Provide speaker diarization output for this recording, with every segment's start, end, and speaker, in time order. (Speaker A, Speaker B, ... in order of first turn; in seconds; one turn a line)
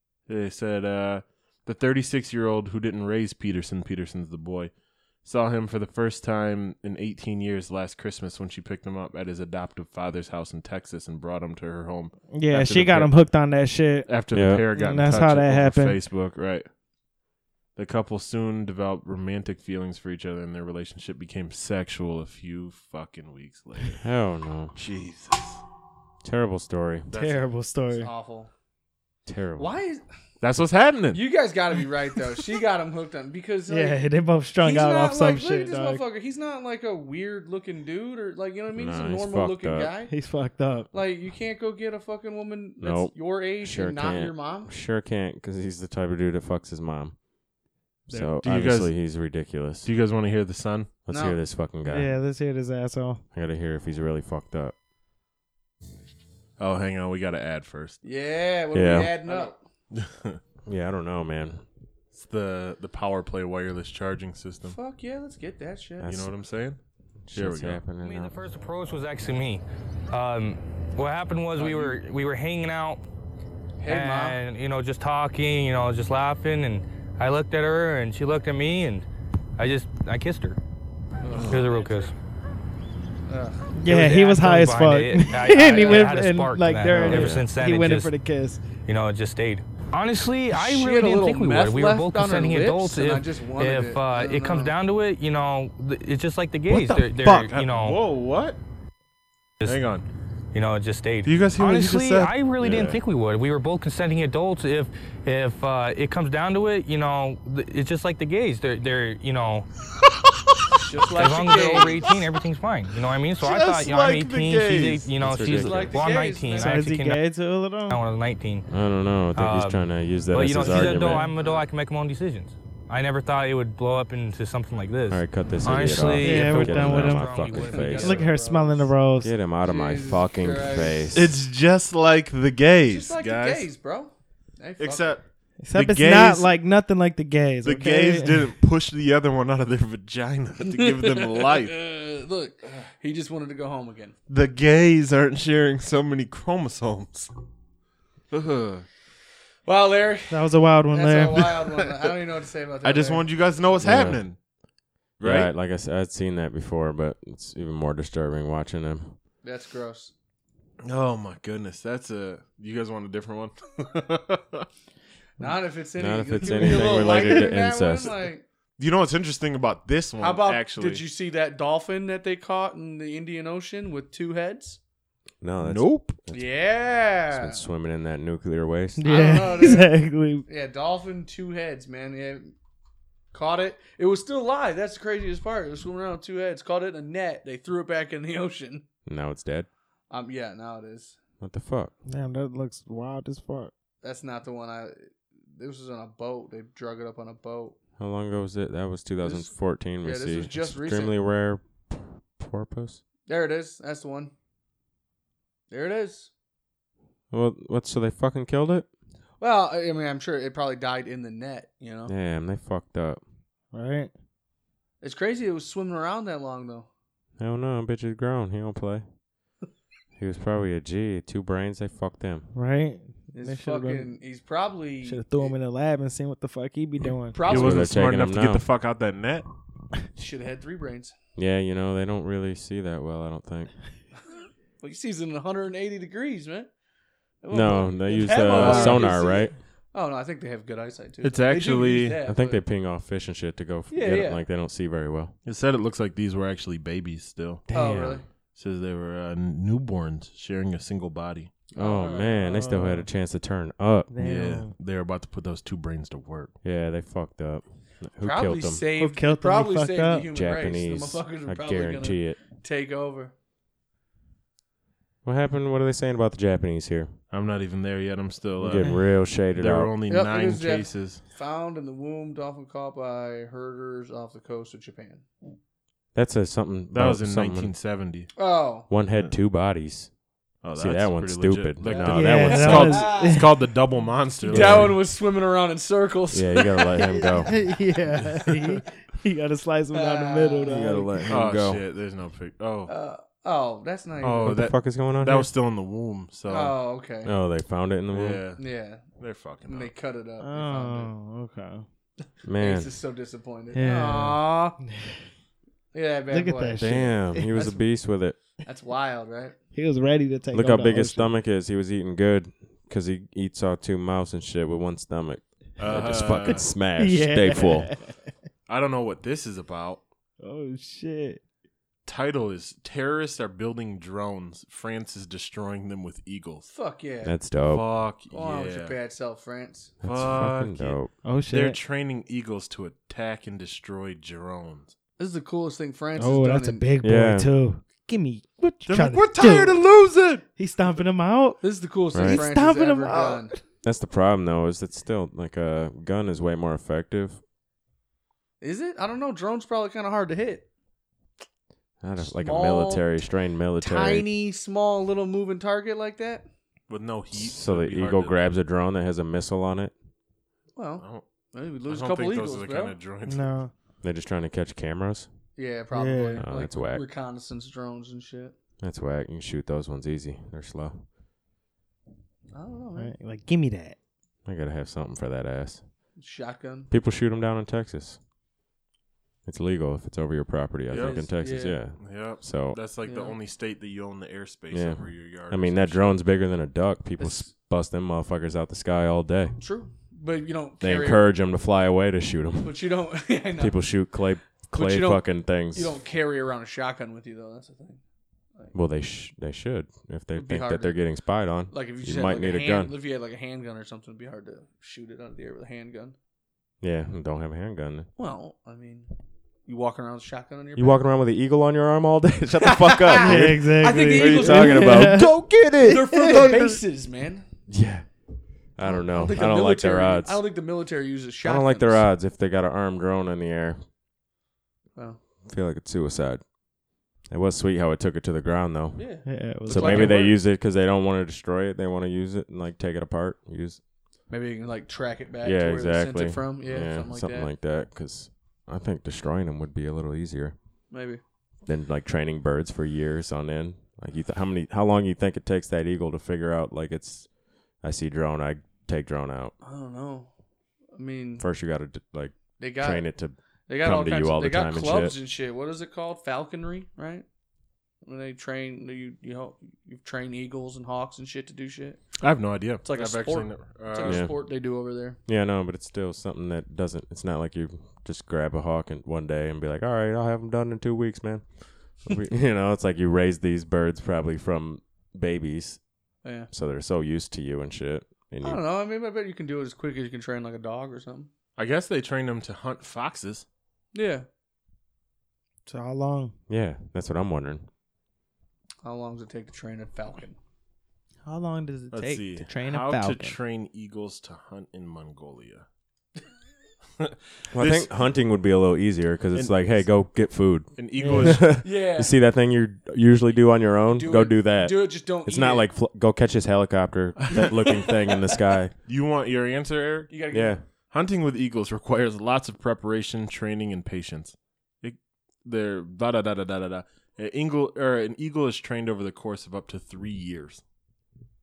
Speaker A: 0.3-4.7
Speaker A: 5.2-13.2
Speaker B: 12.3-16.0
Speaker A: 14.1-16.7
Speaker C: 14.3-14.7
Speaker A: 17.8-24.0
Speaker C: 24.0-24.8
Speaker A: 24.8-25.6
Speaker C: 26.2-27.1
Speaker A: 27.1-27.4
Speaker B: 27.1-28.1
Speaker D: 28.0-28.5
Speaker C: 29.3-29.8
Speaker D: 29.6-30.0
Speaker A: 30.4-31.2
Speaker D: 31.1-34.0
Speaker B: 33.7-36.0
Speaker D: 34.6-40.1
Speaker C: 38.7-39.9
Speaker B: 40.1-40.9
Speaker D: 40.9-44.7
Speaker C: 42.8-47.2
Speaker C: 48.1-49.9
Speaker A: 48.1-49.0
Speaker A: 49.8-50.9
Speaker C: 51.1-52.2
Speaker D: 51.1-51.4
Speaker B: 51.9-53.2
Speaker C: 53.3-54.7
Speaker A: 56.6-58.0
Speaker D: 58.0-59.6
Speaker C: 58.7-59.1
Speaker A: 59.2-60.4
Speaker C: 60.7-61.6
Speaker A: 62.1-64.8
Speaker D: 64.6-66.1
Speaker C: 66.0-66.3
Speaker A: 66.0-66.8
Speaker C: 67.3-68.4
Speaker A: 67.3-67.8
Speaker E: 68.0-73.0
Speaker D: 71.6-72.0
Speaker D: 73.8-74.4
Speaker E: 73.9-79.1
Speaker E: 79.6-80.6
Speaker D: 81.2-81.9
Speaker A: 81.4-81.7
Speaker E: 81.4-82.1
Speaker D: 83.3-83.7
Speaker B: 83.8-88.6
Speaker E: 83.8-88.2
Speaker D: 85.6-86.2
Speaker C: 87.0-87.5
Speaker E: 88.8-98.0
Speaker D: 90.5-94.8
Speaker A: 96.7-98.6
Speaker A: 99.7-100.0
Speaker E: 100.5-109.7
Speaker A: 101.2-103.0
Speaker D: 110.8-112.1
Speaker E: 111.1-117.3
Speaker A: 111.3-111.8
Speaker A: 113.4-115.1
Speaker C: 115.2-116.0
Speaker D: 115.5-116.9
Speaker B: 116.5-118.0
Speaker E: 117.9-118.7
Speaker C: 118.7-121.3
Speaker E: 119.3-128.3
Speaker B: 120.9-121.3
Speaker D: 121.3-121.7
Speaker C: 125.1-128.2
Speaker B: 126.2-129.3
Speaker D: 127.4-128.9
Speaker C: 129.2-131.4
Speaker D: 129.6-131.1
Speaker A: 131.1-133.7
Speaker D: 132.8-135.2
Speaker A: 134.8-136.5
Speaker B: 135.6-138.5
Speaker A: 137.6-141.8
Speaker D: 140.7-144.2
Speaker A: 144.3-147.3
Speaker A: 148.3-148.9
Speaker D: 149.7-153.3
Speaker B: 150.3-151.5
Speaker A: 151.4-152.1
Speaker A: 152.8-154.4
Speaker C: 153.8-154.2
Speaker A: 155.2-155.5
Speaker C: 155.2-159.2
Speaker D: 159.4-160.1
Speaker A: 160.8-164.7
Speaker D: 165.4-168.4
Speaker C: 166.0-168.3
Speaker A: 166.6-167.1
Speaker A: 168.8-171.0
Speaker D: 170.2-174.8
Speaker C: 175.4-176.5
Speaker A: 175.6-176.2
Speaker D: 176.3-177.7
Speaker C: 177.3-179.4
Speaker B: 179.0-180.4
Speaker D: 179.1-182.6
Speaker D: 183.3-188.8
Speaker C: 189.1-189.7
Speaker D: 190.1-191.2
Speaker C: 191.4-191.9
Speaker B: 192.1-193.7
Speaker D: 194.0-197.8
Speaker C: 198.0-203.0
Speaker D: 199.2-201.2
Speaker D: 203.3-204.3
Speaker D: 205.7-206.3
Speaker C: 207.3-208.9
Speaker D: 209.4-212.1
Speaker C: 212.1-213.2
Speaker B: 213.7-214.1
Speaker D: 215.0-216.9
Speaker C: 217.4-219.0
Speaker C: 220.2-222.5
Speaker B: 222.5-224.1
Speaker D: 223.3-225.6
Speaker B: 225.0-227.4
Speaker D: 227.3-227.9
Speaker A: 227.4-229.5
Speaker C: 227.5-228.7
Speaker D: 230.2-231.1
Speaker C: 231.4-233.7
Speaker D: 234.8-236.7
Speaker D: 237.4-242.6
Speaker C: 237.5-239.6
Speaker A: 238.4-239.2
Speaker A: 241.2-242.2
Speaker C: 242.3-245.3
Speaker D: 243.9-244.4
Speaker A: 245.4-251.5
Speaker C: 247.7-248.2
Speaker D: 247.7-248.2
Speaker D: 251.7-252.5
Speaker C: 251.7-254.1
Speaker B: 252.4-253.1
Speaker B: 254.1-254.7
Speaker A: 254.2-256.6
Speaker C: 256.6-258.8
Speaker D: 258.2-263.3
Speaker B: 258.9-260.3
Speaker C: 260.3-262.4
Speaker C: 265.2-267.2
Speaker A: 267.3-268.9
Speaker C: 268.6-269.9
Speaker A: 269.5-271.2
Speaker D: 270.1-275.3
Speaker C: 276.1-277.7
Speaker A: 276.9-278.3
Speaker D: 278.4-278.9
Speaker C: 278.9-280.1
Speaker A: 280.6-285.0
Speaker C: 280.8-283.0
Speaker D: 281.8-283.4
Speaker B: 282.1-283.5
Speaker C: 284.5-285.0
Speaker D: 284.5-287.1
Speaker C: 286.3-287.5
Speaker B: 287.0-291.3
Speaker A: 288.2-288.8
Speaker D: 289.9-290.9
Speaker C: 290.7-291.8
Speaker A: 291.3-292.9
Speaker D: 292.9-294.6
Speaker A: 294.2-296.8
Speaker C: 294.4-295.5
Speaker D: 296.5-297.3
Speaker C: 297.2-298.4
Speaker A: 298.1-299.9
Speaker D: 298.6-301.1
Speaker B: 300.4-301.9
Speaker C: 302.4-302.9
Speaker D: 302.6-304.8
Speaker B: 303.7-305.1
Speaker D: 305.9-307.8
Speaker B: 306.3-307.7
Speaker C: 306.8-308.4
Speaker D: 308.6-309.6
Speaker B: 309.7-311.4
Speaker C: 310.5-317.9
Speaker A: 315.8-316.8
Speaker B: 316.5-318.1
Speaker A: 318.7-320.0
Speaker B: 320.4-321.4
Speaker A: 322.1-326.7
Speaker D: 326.7-327.4
Speaker C: 327.2-327.9
Speaker A: 327.7-328.9
Speaker D: 328.3-330.0
Speaker C: 330.0-331.1
Speaker A: 330.0-334.9
Speaker B: 331.2-331.8
Speaker D: 335.2-336.9
Speaker B: 336.2-339.8
Speaker C: 337.0-337.5
Speaker A: 338.9-340.4
Speaker B: 340.6-341.6
Speaker D: 341.6-343.5
Speaker C: 342.1-342.4
Speaker B: 342.1-343.6
Speaker C: 343.8-347.4
Speaker D: 348.6-350.7
Speaker C: 352.0-354.3
Speaker D: 352.3-353.1
Speaker D: 353.8-356.5
Speaker A: 356.9-358.4
Speaker C: 357.3-359.9
Speaker D: 360.8-363.0
Speaker A: 361.0-361.2
Speaker A: 361.9-363.6
Speaker B: 363.3-363.7
Speaker C: 364.0-365.3
Speaker D: 365.6-368.6
Speaker B: 365.9-366.4
Speaker C: 366.4-367.1
Speaker C: 368.8-371.0
Speaker D: 372.5-373.1
Speaker B: 373.0-374.0
Speaker C: 374.5-375.8
Speaker D: 376.2-376.9
Speaker C: 376.9-378.2
Speaker C: 379.5-382.8
Speaker A: 380.9-381.3
Speaker D: 381.0-381.8
Speaker A: 382.0-386.2
Speaker D: 383.0-383.4
Speaker C: 384.7-389.6
Speaker D: 387.2-387.5
Speaker D: 389.6-391.3
Speaker C: 390.8-392.8
Speaker D: 392.6-394.1
Speaker C: 393.6-396.0
Speaker D: 394.7-398.0
Speaker C: 398.7-402.9
Speaker D: 400.4-401.0
Speaker D: 401.7-406.2
Speaker C: 406.8-408.1
Speaker D: 408.2-409.1
Speaker D: 409.7-411.0
Speaker C: 410.8-416.5
Speaker D: 412.6-415.3
Speaker B: 413.2-415.4
Speaker D: 415.9-417.4
Speaker C: 417.7-418.1
Speaker C: 418.8-420.4
Speaker D: 418.8-422.1
Speaker C: 421.4-423.8
Speaker C: 425.5-426.4
Speaker C: 427.3-429.1
Speaker D: 428.9-430.4
Speaker B: 429.2-430.3
Speaker C: 429.6-433.8
Speaker D: 434.3-437.5
Speaker C: 435.4-440.6
Speaker D: 440.9-441.2
Speaker C: 441.7-449.5
Speaker D: 449.6-450.3
Speaker D: 450.9-451.4
Speaker C: 451.4-455.2
Speaker D: 452.6-453.1
Speaker D: 453.7-457.3
Speaker D: 458.1-465.2
Speaker A: 462.2-464.3
Speaker C: 464.1-464.4
Speaker C: 465.3-475.8
Speaker D: 476.2-476.5
Speaker C: 476.5-478.6
Speaker D: 478.4-481.3
Speaker A: 481.6-483.5
Speaker D: 483.9-484.3
Speaker B: 485.7-486.3
Speaker C: 486.5-487.7
Speaker D: 488.8-490.4
Speaker B: 491.2-493.4
Speaker A: 491.9-495.7
Speaker A: 497.0-497.9
Speaker C: 497.5-508.7
Speaker A: 499.3-500.0
Speaker A: 500.8-501.6
Speaker B: 501.0-501.5
Speaker D: 501.6-502.1
Speaker D: 503.9-505.7
Speaker D: 507.4-508.2
Speaker A: 508.9-510.2
Speaker D: 510.1-510.6
Speaker C: 510.3-510.6
Speaker A: 510.9-520.6